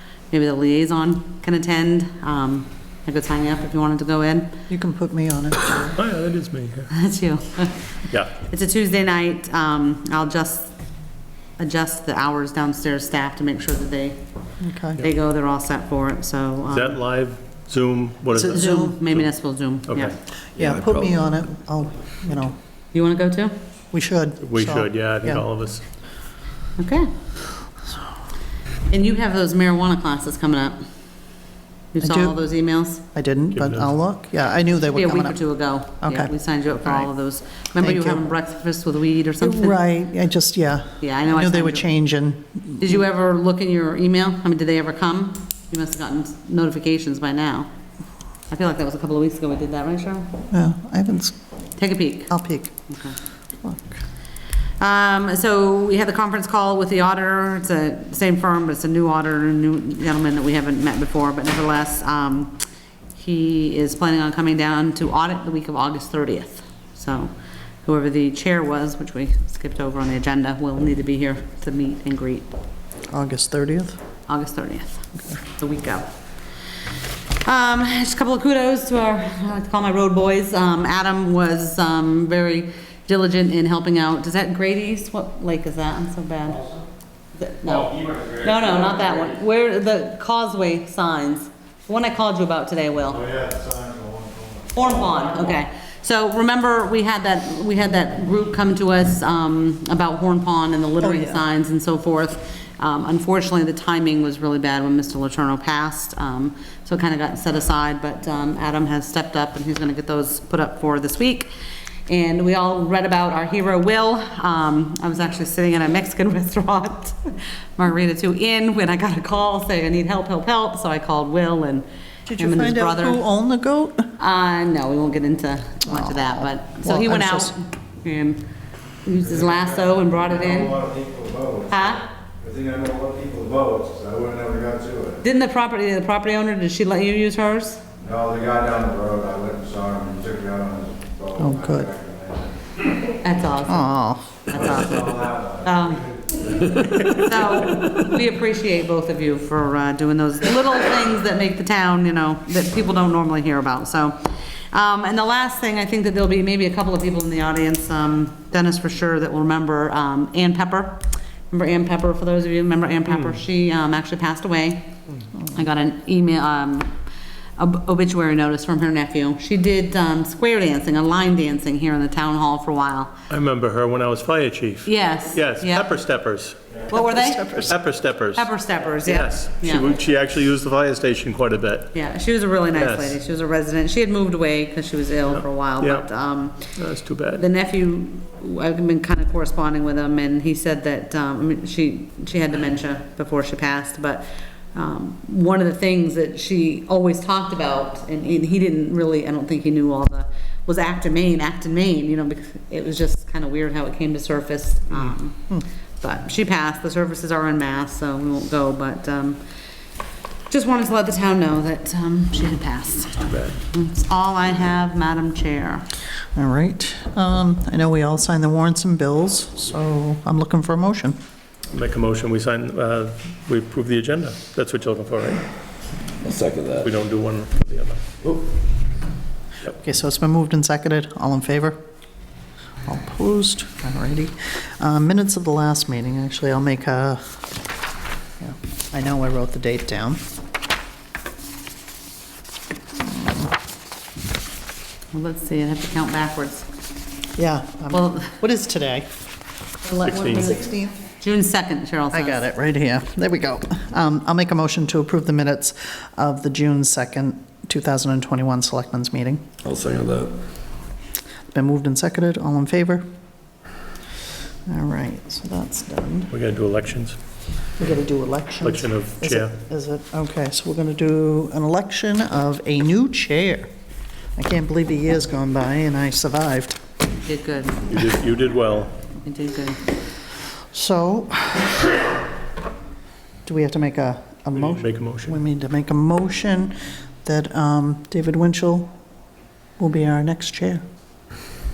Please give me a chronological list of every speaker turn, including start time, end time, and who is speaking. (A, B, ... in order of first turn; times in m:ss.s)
0:00.3-0:04.5 A
0:04.7-0:06.0 B
0:06.0-0:06.9 C
0:06.9-0:10.7 A
0:11.6-0:14.2 A
0:14.6-0:15.0 B
0:15.0-0:17.0 A
0:16.7-0:19.3 C
0:18.3-0:19.0 B
0:18.4-0:20.2 A
0:19.9-0:20.1 C
0:20.6-0:22.6 B
0:20.6-0:21.1 D
0:22.9-0:23.5 A
0:23.9-0:25.4 B
0:24.4-0:25.8 C
0:26.8-0:27.1 A
0:28.9-0:30.8 A
0:31.9-0:33.0 A
0:32.0-0:32.4 B
0:33.1-0:35.4 B
0:33.5-0:33.9 C
0:34.9-0:39.8 A
0:36.0-0:36.3 B
0:37.8-0:38.2 B
0:39.4-0:43.0 B
0:41.0-0:41.9 A
0:42.8-0:47.7 A
0:48.5-0:50.3 A
0:50.5-0:51.3 B
0:51.8-0:52.3 A
0:52.3-0:52.7 B
0:52.9-0:53.2 A
0:53.6-0:54.0 B
0:54.8-1:07.3 A
1:07.8-1:12.5 A
1:13.1-1:14.0 B
1:14.3-1:16.1 A
1:17.4-1:26.6 A
1:27.3-1:33.3 A
1:33.3-1:34.6 E
1:34.7-1:51.5 A
1:41.0-1:41.4 B
1:52.1-2:01.8 A
2:02.3-2:04.1 B
2:02.4-2:03.2 A
2:04.2-2:08.4 A
2:05.9-2:07.5 B
2:09.0-2:10.8 A
2:10.3-2:11.7 E
2:11.7-2:12.1 A
2:12.4-2:15.2 E
2:15.2-2:17.8 A
2:18.0-2:22.4 E
2:21.4-2:21.9 B
2:23.0-2:26.1 A
2:23.6-2:24.5 B
2:24.7-2:25.6 E
2:26.3-2:26.7 E
2:26.6-2:44.9 A
2:27.0-2:27.2 C
2:45.5-2:46.9 A
2:47.6-2:53.1 A
2:53.3-2:56.6 C
2:54.8-2:55.9 A
2:56.9-2:57.7 A
2:56.9-2:57.7 B
2:57.6-2:58.5 C
2:58.4-2:59.9 A
2:59.0-3:01.9 C
3:01.9-3:06.7 A
3:02.8-3:03.2 C
3:05.3-3:06.1 C
3:06.6-3:07.4 C
3:07.4-3:25.5 A
3:26.0-3:29.4 A
3:30.5-3:35.8 A
3:33.2-3:33.5 C
3:36.3-3:41.2 B
3:41.7-3:45.4 C
3:46.2-3:46.9 D
3:46.8-3:48.1 C
3:49.8-3:51.8 B
3:52.8-3:57.4 B
3:58.4-4:00.2 B
4:03.0-4:03.5 B
4:05.1-4:06.7 A
4:07.4-4:09.1 B
4:07.9-4:08.3 A
4:09.8-4:10.6 A
4:10.0-4:10.6 C
4:10.1-4:10.9 B
4:11.2-4:12.4 A
4:12.1-4:19.5 B
4:19.6-4:20.3 D
4:21.5-4:23.1 B
4:24.7-4:26.3 B
4:26.3-4:27.2 C
4:27.8-4:33.7 B
4:28.6-4:29.5 C
4:34.4-4:36.8 B
4:37.2-4:38.0 A
4:37.9-4:38.9 C
4:39.2-4:39.8 A
4:40.7-4:42.0 B
4:43.4-4:48.9 B
4:44.6-4:45.4 C
4:49.8-4:50.8 B